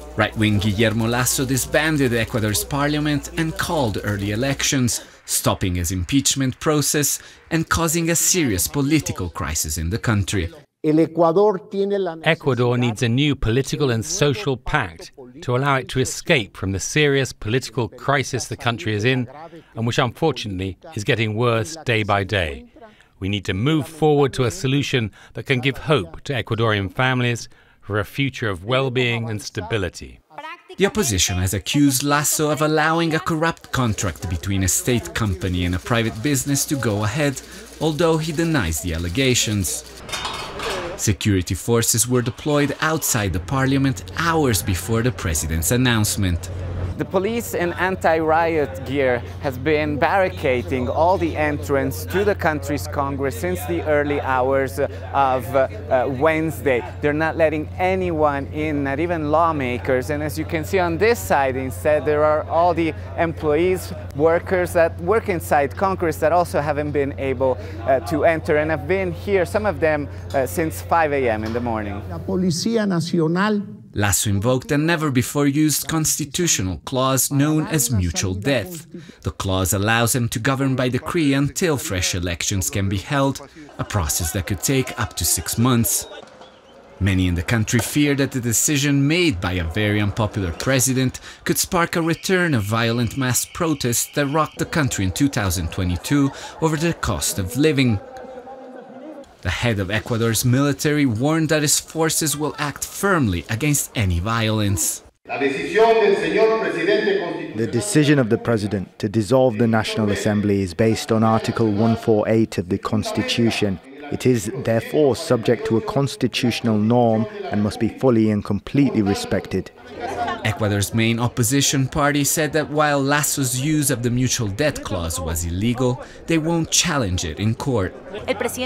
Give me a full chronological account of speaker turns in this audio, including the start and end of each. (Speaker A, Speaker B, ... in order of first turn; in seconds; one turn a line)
Speaker A: 0.2-10.5
Speaker B: 10.8-12.2
Speaker C: 12.2-22.7
Speaker C: 23.2-30.2
Speaker A: 30.8-39.9
Speaker A: 41.0-46.5
Speaker D: 47.0-72.1
Speaker B: 72.1-73.6
Speaker A: 74.0-86.1
Speaker B: 77.5-78.9
Speaker A: 87.0-98.0
Speaker A: 99.4-105.0
Speaker E: 107.5-119.7
Speaker A: 120.4-128.0